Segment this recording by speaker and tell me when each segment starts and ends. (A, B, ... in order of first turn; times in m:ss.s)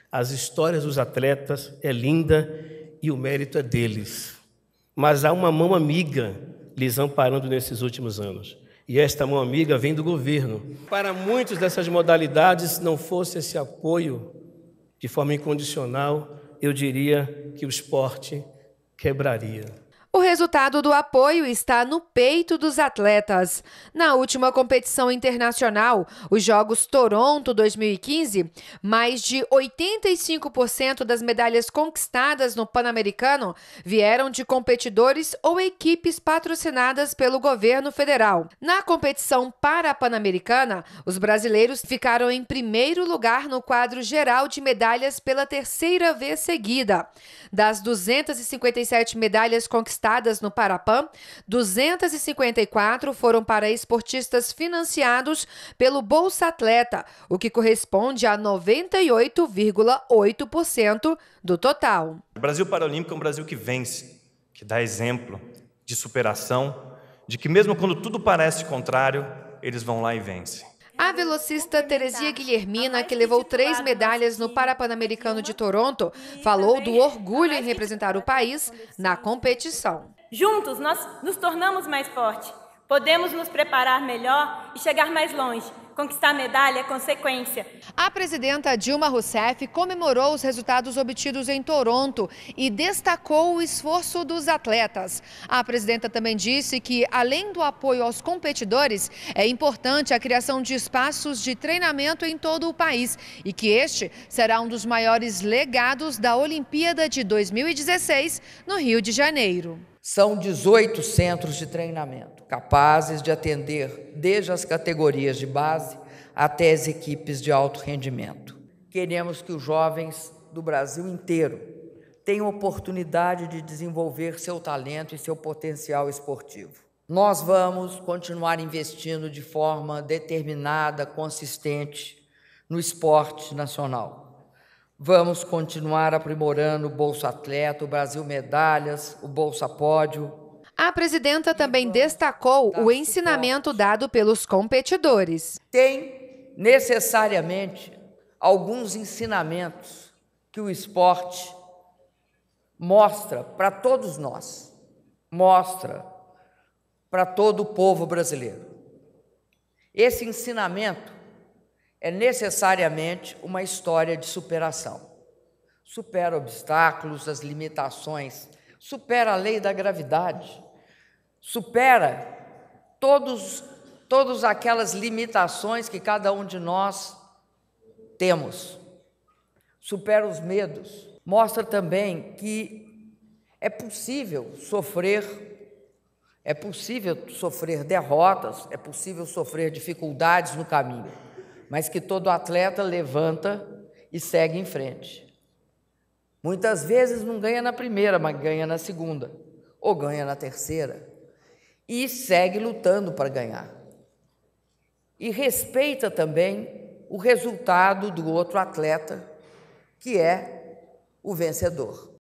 0:00.1-0:04.4 A
0:05.0-0:14.3 A
0:15.0-0:18.5 A
0:19.0-0:19.8 A
0:20.1-1:02.2 B
1:02.3-1:10.7 C
1:10.9-1:15.6 D
1:11.0-1:20.1 B
1:16.1-1:19.4 D
1:20.3-1:27.7 D
1:28.0-1:49.9 B
1:50.0-2:01.7 E
2:02.2-2:14.3 E
2:15.0-2:20.4 E
2:20.8-2:25.6 B
2:21.5-2:22.2 E
2:22.7-2:23.8 E
2:25.7-2:31.6 E
2:32.8-2:34.7 E
2:35.3-2:36.1 E
2:37.1-2:38.7 E
2:39.9-2:41.2 E
2:42.0-2:45.1 E
2:45.8-2:50.6 E
2:51.4-2:52.3 E
2:53.0-2:57.2 E
2:58.2-2:58.8 E
2:59.8-3:02.9 E
3:03.6-3:05.4 E
3:06.4-3:11.1 E
3:11.7-3:15.3 E
3:16.4-3:21.1 E
3:21.9-3:23.7 E
3:25.2-3:29.3 E
3:30.0-3:30.6 E
3:31.2-3:32.1 E